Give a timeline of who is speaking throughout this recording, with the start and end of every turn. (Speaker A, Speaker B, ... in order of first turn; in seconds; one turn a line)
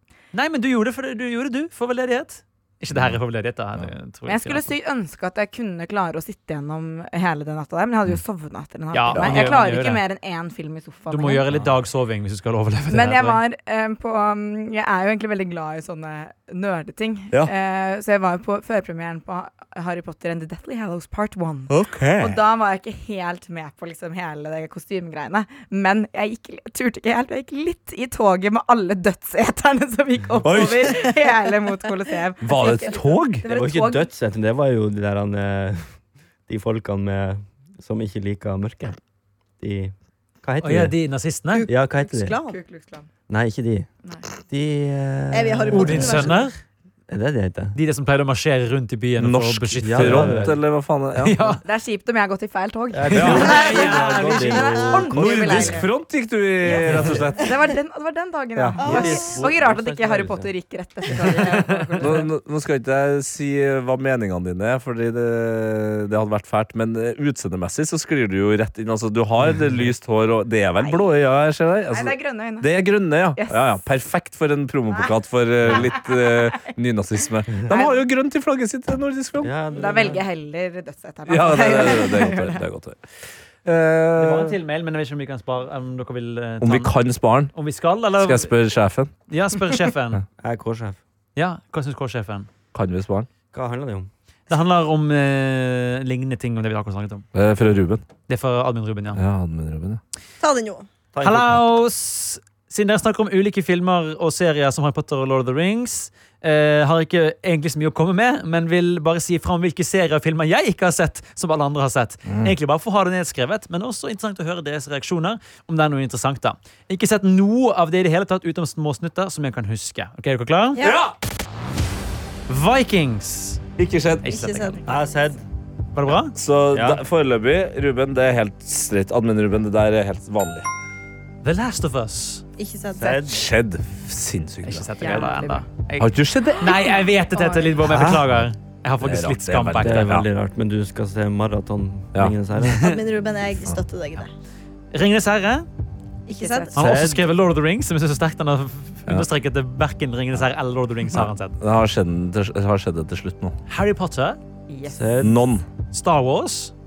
Speaker A: 0.3-4.7
Speaker B: 2.9-3.2
Speaker C: 4.2-11.5
Speaker A: 8.9-10.0
Speaker B: 9.1-9.4
Speaker A: 11.1-13.4
Speaker C: 12.9-34.1
Speaker B: 21.7-22.4
Speaker B: 30.4-31.1
Speaker B: 32.4-33.5
Speaker D: 32.6-32.9
Speaker E: 33.5-39.0
Speaker E: 39.6-40.9
Speaker A: 40.6-41.7
Speaker D: 41.5-42.6
Speaker E: 41.7-42.4
Speaker C: 42.4-43.1
Speaker E: 43.3-46.4
Speaker D: 45.3-46.5
Speaker A: 45.7-46.6
Speaker E: 47.1-47.8
Speaker A: 47.7-50.4
Speaker B: 49.2-51.4
Speaker E: 49.8-50.6
Speaker A: 51.2-51.6
Speaker C: 51.6-55.9
Speaker E: 52.9-55.8
Speaker A: 53.1-54.8
Speaker B: 53.1-53.6
Speaker B: 55.1-57.5
Speaker E: 56.7-57.1
Speaker C: 56.7-62.3
Speaker A: 56.8-57.2
Speaker B: 58.6-58.8
Speaker D: 58.8-59.4
Speaker E: 58.8-60.5
Speaker E: 61.1-61.4
Speaker A: 61.5-61.9
Speaker B: 62.0-79.5
Speaker C: 70.8-71.1
Speaker C: 71.9-73.8
Speaker C: 75.7-76.7
Speaker C: 77.7-78.0
Speaker E: 79.4-80.2
Speaker C: 79.7-82.6
Speaker B: 81.3-83.0
Speaker B: 83.6-84.6
Speaker A: 84.2-86.9
Speaker B: 86.6-87.5
Speaker A: 87.5-88.5
Speaker B: 88.2-89.1
Speaker A: 89.3-90.2
Speaker E: 90.4-91.0
Speaker A: 91.4-92.5
Speaker B: 92.7-93.3
Speaker E: 93.5-94.1
Speaker A: 94.5-97.3
Speaker B: 97.3-98.0
Speaker A: 98.3-99.2
Speaker B: 99.1-100.0
Speaker D: 100.4-100.9
Speaker E: 101.1-101.6
Speaker A: 101.2-120.8
Speaker D: 120.8-121.1
Speaker B: 120.8-121.1
Speaker A: 122.5-123.6
Speaker B: 123.8-124.3
Speaker D: 124.2-125.1
Speaker A: 124.3-124.8
Speaker E: 124.9-125.4
Speaker A: 125.9-126.3
Speaker B: 126.3-130.7
Speaker E: 126.7-127.0
Speaker A: 131.4-132.4
Speaker D: 132.6-133.2
Speaker E: 132.9-133.4
Speaker B: 133.3-135.2
Speaker A: 134.6-140.2
Speaker C: 135.0-135.7
Speaker B: 136.0-136.7
Speaker C: 136.6-137.8
Speaker E: 137.8-138.3
Speaker B: 139.0-140.3
Speaker E: 139.8-142.8
Speaker A: 142.6-143.0
Speaker D: 142.8-144.3
Speaker A: 144.9-145.7
Speaker D: 146.3-146.8
Speaker C: 146.3-146.7
Speaker E: 146.7-147.2
Speaker A: 146.7-151.6
Speaker B: 151.1-153.6
Speaker A: 153.7-154.4
Speaker C: 154.7-155.2
Speaker E: 154.9-155.3
Speaker B: 155.2-155.6
Speaker A: 155.9-156.7